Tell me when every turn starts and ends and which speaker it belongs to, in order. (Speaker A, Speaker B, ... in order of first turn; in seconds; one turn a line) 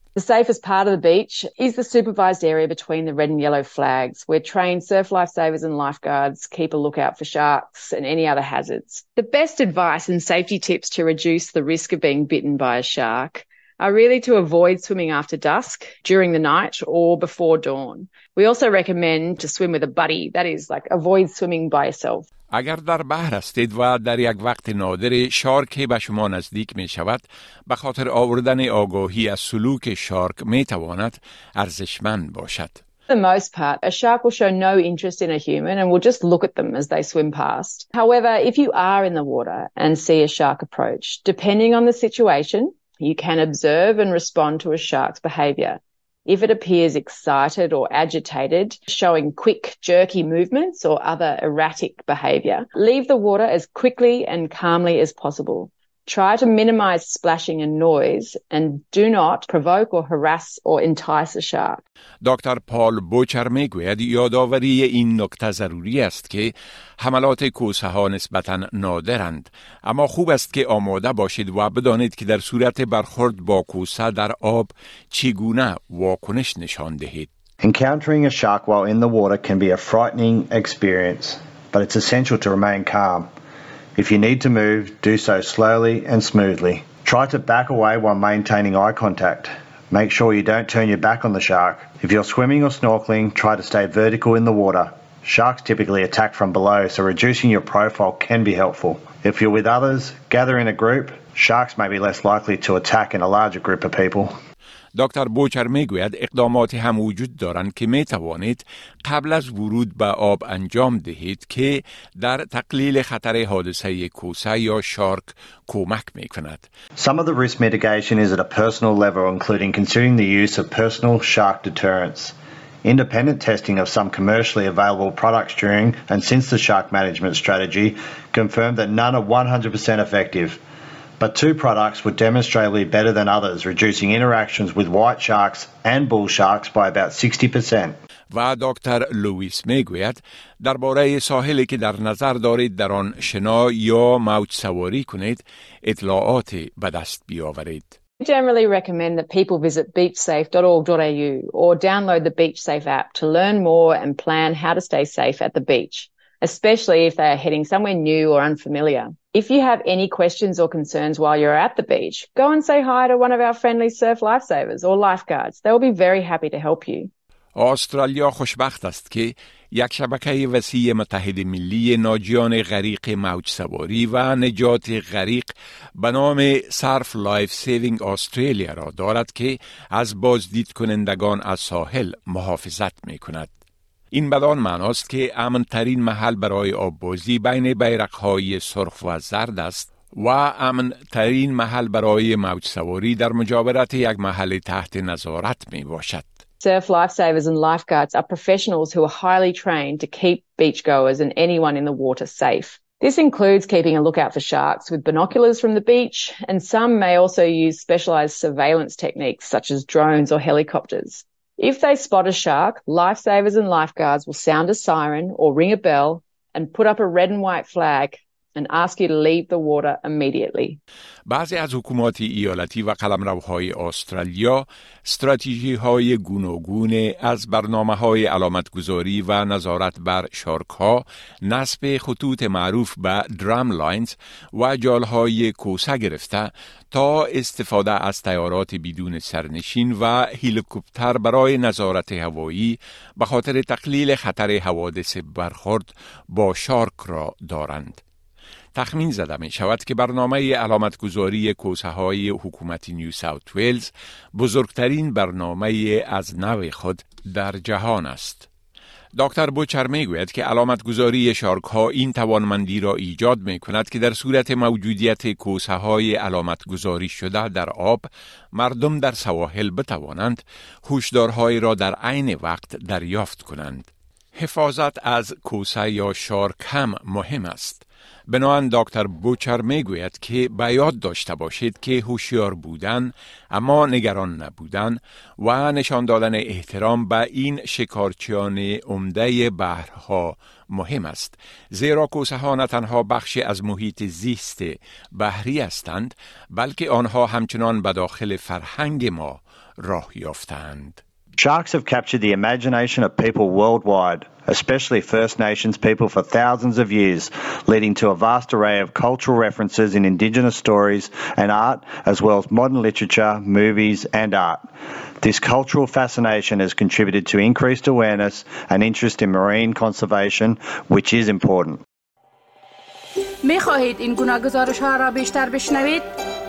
Speaker A: 0.1-22.2
Speaker B: 22.5-32.8
Speaker A: 33.1-61.8
Speaker B: 62.2-77.3
Speaker C: 77.6-83.3
Speaker C: 84.0-104.3
Speaker B: 104.9-116.7
Speaker C: 117.0-130.6
Speaker C: 131.2-138.0
Speaker B: 138.3-147.9
Speaker A: 148.2-167.1
Speaker B: 167.5-183.5
Speaker B: 184.1-196.3
Speaker A: 196.6-220.8
Speaker B: 221.3-248.0
Speaker B: 248.7-258.5
Speaker B: 259.1-301.0
Speaker C: 301.4-321.8
Speaker D: 323.4-326.1